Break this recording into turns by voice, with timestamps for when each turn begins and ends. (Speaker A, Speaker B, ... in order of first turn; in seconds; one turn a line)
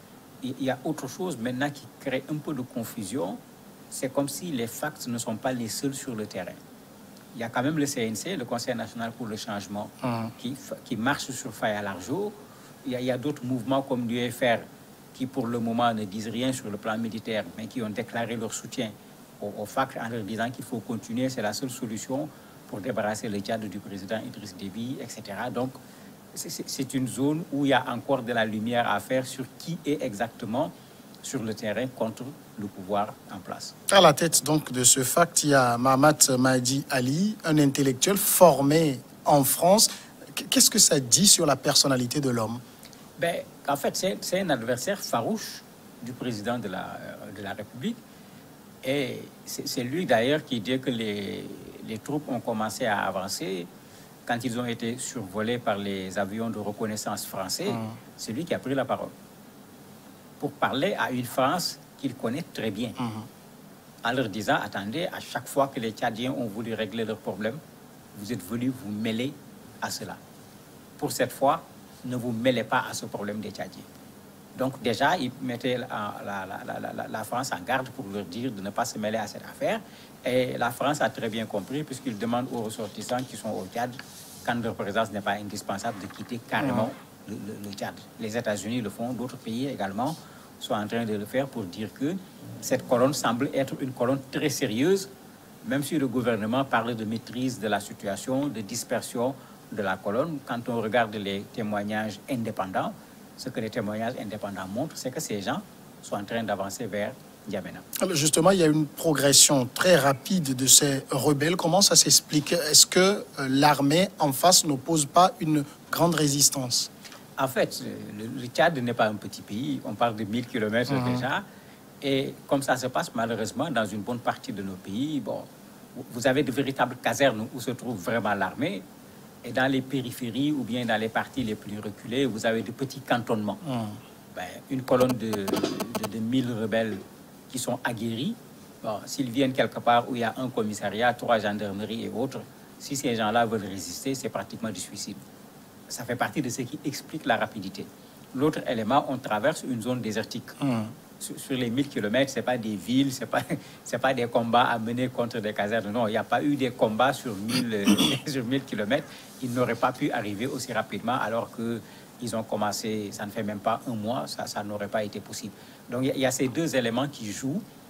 Speaker A: 0.4-3.4
Speaker A: 3.9-6.6
Speaker A: 7.3-25.8
Speaker A: 26.3-33.7
Speaker B: 33.9-42.6
Speaker A: 43.2-48.0
Speaker A: 48.8-53.7
Speaker A: 54.3-59.1
Speaker A: 60.4-63.0
Speaker A: 64.0-67.6
Speaker A: 68.1-70.2
Speaker A: 71.0-73.9
Speaker A: 74.6-95.1
Speaker A: 95.6-107.8
Speaker B: 108.0-116.9
Speaker A: 117.4-121.5
Speaker B: 120.9-121.2
Speaker A: 122.0-128.8
Speaker A: 129.4-133.6
Speaker B: 133.7-134.0
Speaker A: 134.3-145.2
Speaker A: 145.9-150.6
Speaker B: 150.6-150.9
Speaker A: 151.2-167.6